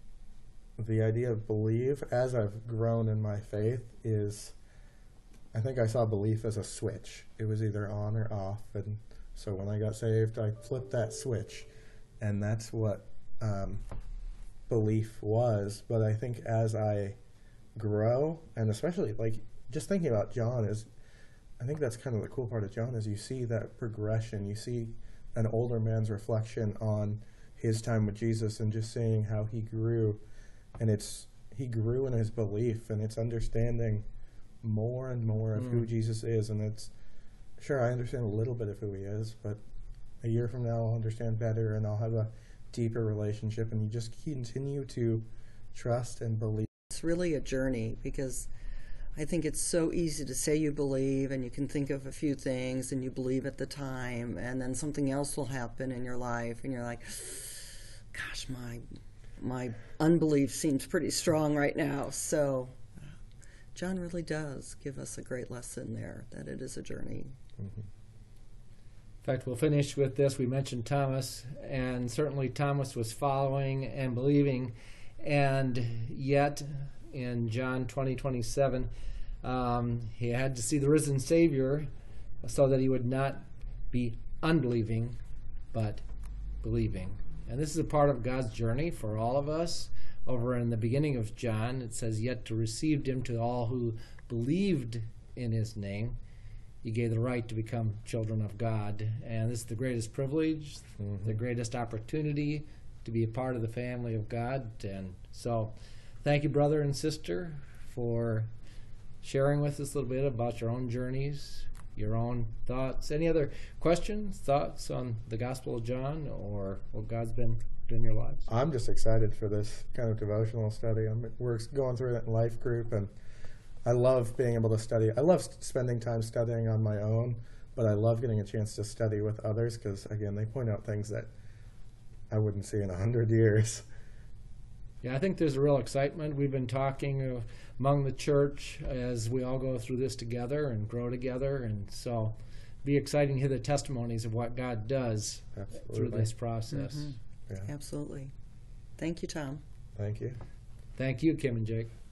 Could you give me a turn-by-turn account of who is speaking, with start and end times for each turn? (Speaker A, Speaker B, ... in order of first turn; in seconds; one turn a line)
Speaker A: 0.8-4.5
Speaker A: 5.5-11.7
Speaker A: 12.2-13.8
Speaker A: 14.7-17.2
Speaker A: 17.7-20.9
Speaker A: 21.6-30.2
Speaker A: 30.8-34.0
Speaker A: 34.6-36.9
Speaker B: 35.6-35.9
Speaker A: 37.6-39.6
Speaker A: 40.2-46.7
Speaker C: 46.9-48.5
Speaker C: 49.1-58.9
Speaker C: 59.4-62.9
Speaker C: 63.7-67.3
Speaker A: 67.6-67.8
Speaker B: 69.2-78.9
Speaker B: 79.4-81.9
Speaker B: 82.4-85.2
Speaker B: 85.7-86.0
Speaker B: 86.6-96.2
Speaker B: 96.8-108.5
Speaker A: 101.0-101.3
Speaker B: 109.2-118.5
Speaker A: 118.5-123.1
Speaker A: 123.8-131.3
Speaker A: 132.3-133.8
Speaker B: 135.0-147.1
Speaker A: 145.6-146.3
Speaker C: 146.7-148.3
Speaker C: 149.0-149.6
Speaker A: 149.9-150.4
Speaker B: 151.0-151.9